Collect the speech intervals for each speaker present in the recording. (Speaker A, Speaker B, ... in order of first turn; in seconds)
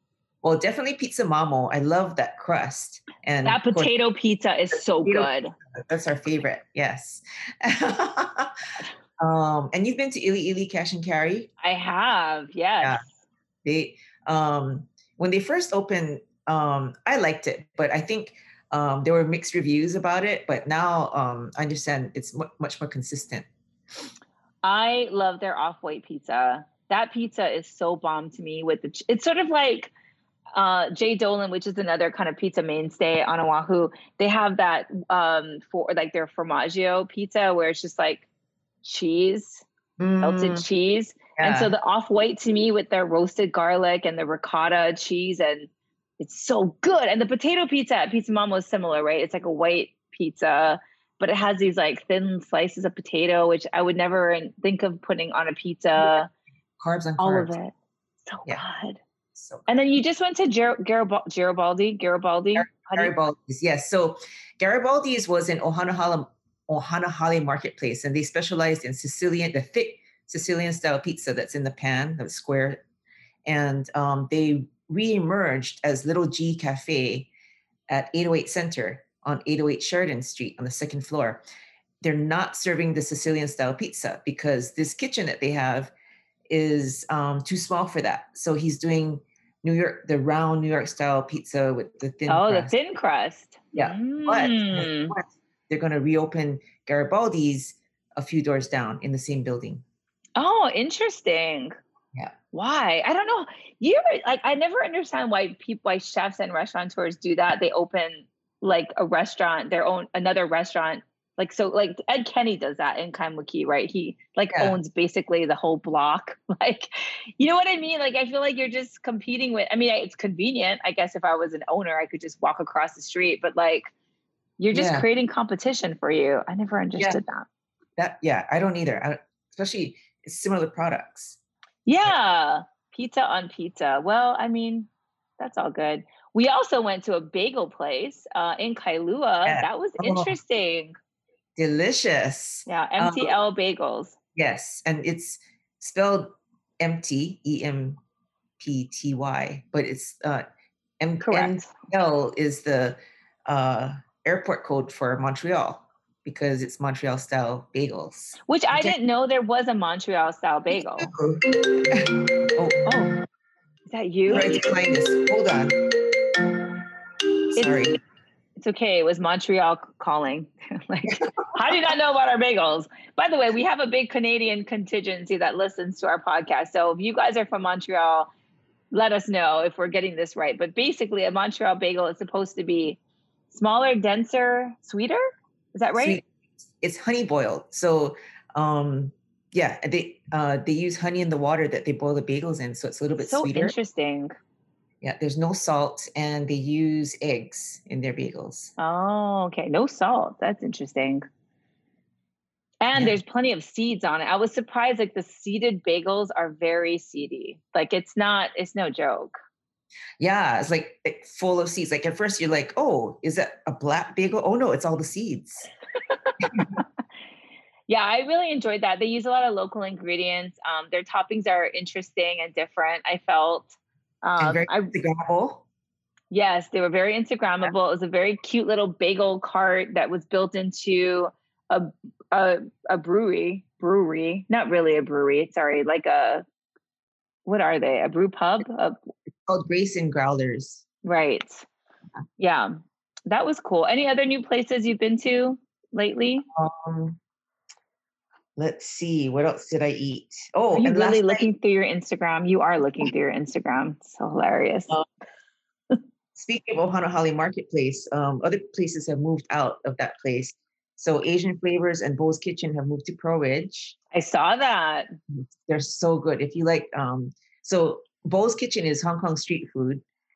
Speaker A: 0.4-3.9, 4.7-8.5, 9.2-11.5, 13.6-23.5, 40.0-40.6, 41.4-41.7, 56.8-57.6, 59.4-59.7, 62.6-72.8, 73.5-77.3, 77.9-81.4, 82.0-85.9, 86.5-92.7, 93.7-99.8, 124.7-125.0, 128.0-131.4, 139.4-140.4, 141.6-143.3, 144.4-148.0, 148.6-150.4, 151.0-158.9, 161.0-162.9, 164.3-166.4, 167.6-168.0, 186.0-186.3, 186.8-193.8, 195.0-198.7, 210.2-215.7, 216.4-216.8, 224.4-225.7, 239.5-240.8, 246.5-247.2, 248.6-251.5, 256.4-264.0, 265.4-270.0
Speaker B: 3.4-5.5, 11.6-13.1, 24.6-29.9, 30.6-38.3, 38.8-39.6, 40.2-45.7, 46.2-56.3, 57.2-57.8, 58.3-59.0, 59.7-63.1, 92.3-95.2, 100.4-101.7, 102.5-123.9, 124.6-127.5, 131.8-140.9, 142.7-144.2, 151.2-151.7, 158.5-161.1, 162.9-163.2, 163.9-164.7, 168.6-178.3, 178.9-183.0, 183.5-185.2, 185.8-186.2, 193.2-194.3, 198.8-201.2, 202.8-209.4, 217.9-224.9, 226.3-236.4, 237.5-239.0, 241.0-241.7, 242.4-242.7, 243.3-246.4, 250.7-255.0, 264.1-265.1